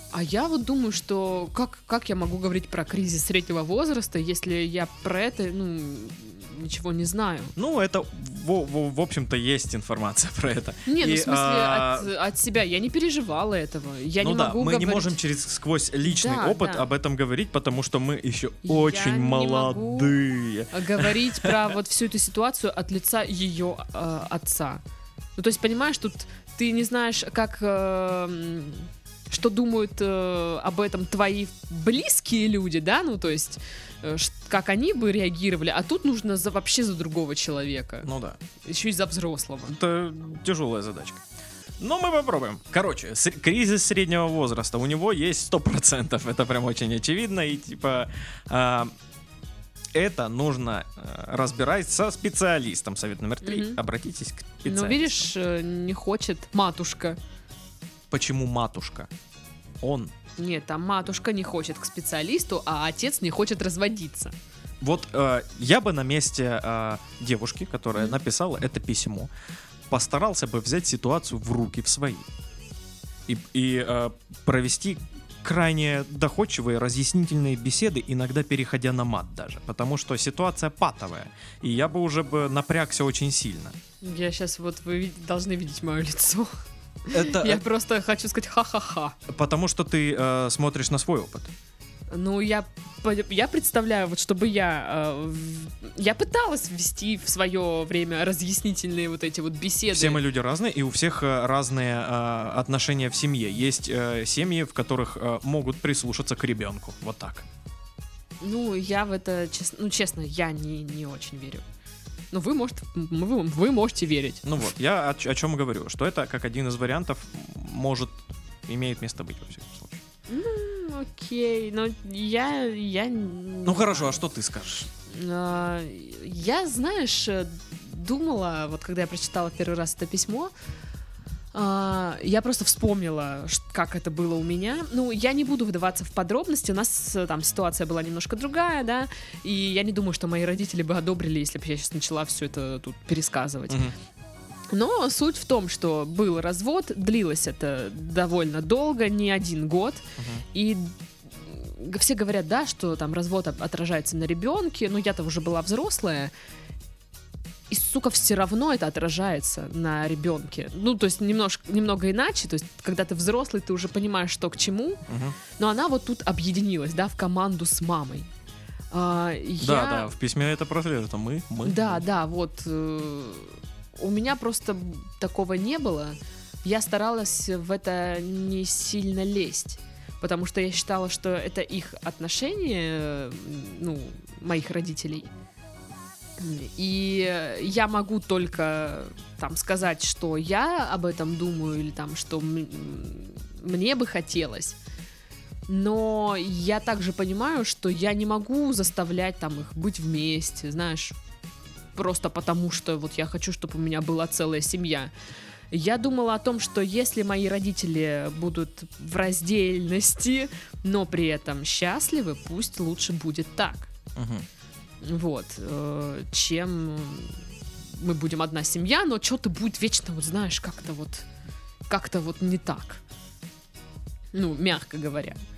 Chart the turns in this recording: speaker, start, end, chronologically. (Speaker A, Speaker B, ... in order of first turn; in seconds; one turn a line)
Speaker A: 0.1-7.5
Speaker B: 7.6-12.1
Speaker A: 10.9-15.2
Speaker B: 14.2-21.7
Speaker A: 16.1-16.9
Speaker A: 18.6-20.1
Speaker A: 20.7-24.8
Speaker A: 25.4-38.1
Speaker B: 38.0-38.4
Speaker A: 38.6-39.8
Speaker B: 39.7-41.2
Speaker B: 41.8-49.0
Speaker B: 49.9-55.3
Speaker A: 53.4-53.8
Speaker A: 54.7-57.2
Speaker B: 58.1-59.1
Speaker B: 59.8-60.1
Speaker A: 60.4-64.3
Speaker B: 64.8-69.3
Speaker B: 69.9-72.3
Speaker B: 73.3-83.8
Speaker A: 84.0-86.5
Speaker A: 87.1-89.2
Speaker B: 87.1-87.6
Speaker B: 89.3-91.5
Speaker A: 92.1-100.2
Speaker B: 99.9-107.5
Speaker A: 108.4-111.7
Speaker A: 112.3-114.5
Speaker B: 114.4-120.0
Speaker A: 120.3-124.2
Speaker B: 123.7-124.9
Speaker A: 125.1-130.5
Speaker A: 131.5-143.9
Speaker B: 143.7-143.9
Speaker A: 144.7-156.3
Speaker B: 150.2-150.4
Speaker A: 157.7-165.0
Speaker B: 165.1-165.4
Speaker A: 165.6-168.3
Speaker A: 168.9-170.1
Speaker B: 169.6-172.0
Speaker A: 171.6-185.3
Speaker A: 186.4-194.8
Speaker A: 195.7-201.2
Speaker A: 201.9-205.1
Speaker A: 205.7-213.9
Speaker B: 214.2-214.5
Speaker A: 215.0-221.3
Speaker A: 221.9-223.0
Speaker A: 224.3-225.4